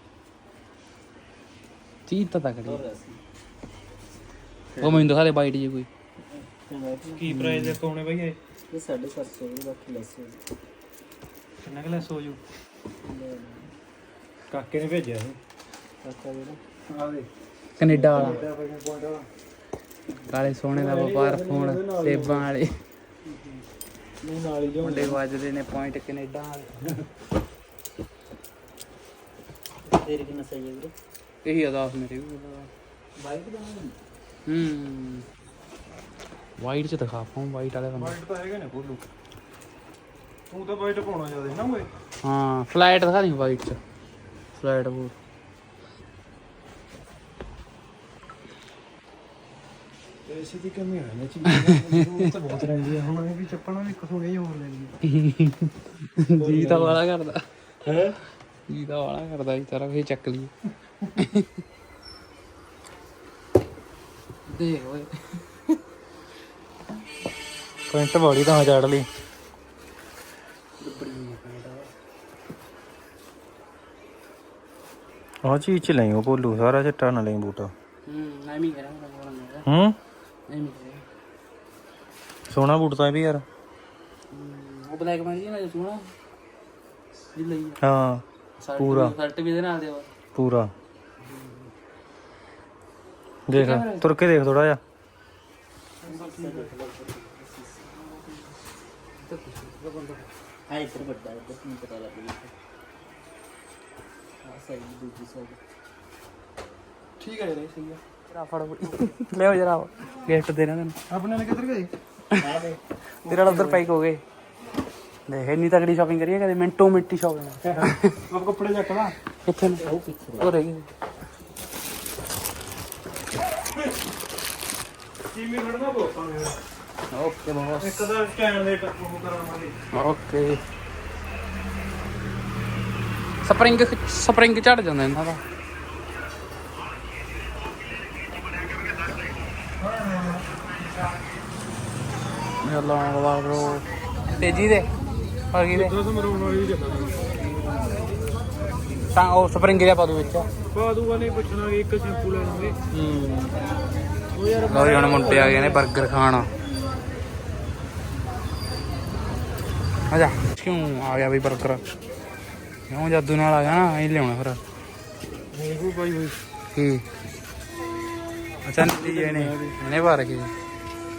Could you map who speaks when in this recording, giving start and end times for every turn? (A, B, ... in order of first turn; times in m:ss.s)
0:02.1-0:02.8 A
0:02.6-0:03.2 B
0:04.8-0:05.9 A
0:04.8-0:05.1 B
0:06.4-0:07.3 B
0:07.2-0:08.4 C
0:07.3-0:07.8 A
0:08.7-0:10.4 B
0:11.6-0:12.4 C
0:13.0-0:13.8 B
0:14.5-0:15.4 C
0:16.0-0:16.6 B
0:16.9-0:17.3 C
0:17.8-0:18.4 A
0:17.8-0:19.3 C
0:20.1-0:20.5 B
0:20.3-0:22.8 A
0:20.7-0:22.5 C
0:23.3-0:23.6 B
0:24.2-0:25.2 C
0:24.8-0:26.9 A
0:29.9-0:30.9 B
0:31.4-0:32.7 A
0:33.2-0:34.0 B
0:34.5-0:35.2 A
0:36.6-0:38.2 A
0:38.0-0:39.1 C
0:40.5-0:41.9 C
0:42.2-0:43.8 A
0:44.6-0:45.2 A
0:50.3-0:55.0 C
0:51.5-0:52.3 A
0:55.0-0:57.4 A
0:56.4-0:57.0 C
0:57.8-0:58.2 C
0:58.7-1:01.5 A
1:04.5-1:05.6 A
1:07.9-1:09.1 C
1:10.8-1:11.9 A
1:15.4-1:17.7 C
1:18.1-1:19.7 A
1:19.7-1:20.0 C
1:20.5-1:21.0 A
1:22.5-1:23.4 C
1:24.3-1:26.1 A
1:27.3-1:27.8 A
1:27.8-1:28.2 C
1:28.6-1:30.1 A
1:28.8-1:29.2 C
1:30.4-1:30.7 C
1:31.2-1:31.7 A
1:33.5-1:34.8 C
1:33.5-1:34.1 A
1:36.0-1:38.5 B
1:36.1-1:36.7 C
1:39.2-1:40.2 A
1:40.7-1:42.5 B
1:44.4-1:45.6 B
1:47.2-1:48.0 C
1:48.3-1:51.0 A
1:51.1-1:51.9 C
1:52.4-1:52.8 B
1:53.2-1:54.2 A
1:53.3-1:53.8 C
1:55.3-1:58.2 A
1:57.7-1:59.2 C
1:59.4-2:00.9 A
1:59.8-2:00.5 B
2:05.3-2:06.6 C
2:07.1-2:08.1 A
2:07.8-2:09.8 C
2:09.9-2:10.6 A
2:13.4-2:15.4 A
2:22.6-2:24.9 A
2:25.5-2:26.0 A
2:25.7-2:27.3 C
2:29.1-2:30.5 A
2:30.7-2:32.8 C
2:33.0-2:33.2 A
2:34.3-2:35.9 C
2:34.7-2:36.5 A
2:40.1-2:41.8 A
2:42.9-2:44.6 A
2:45.5-2:46.4 C
2:46.7-2:47.1 A
2:48.6-2:50.5 A
2:48.7-2:49.8 C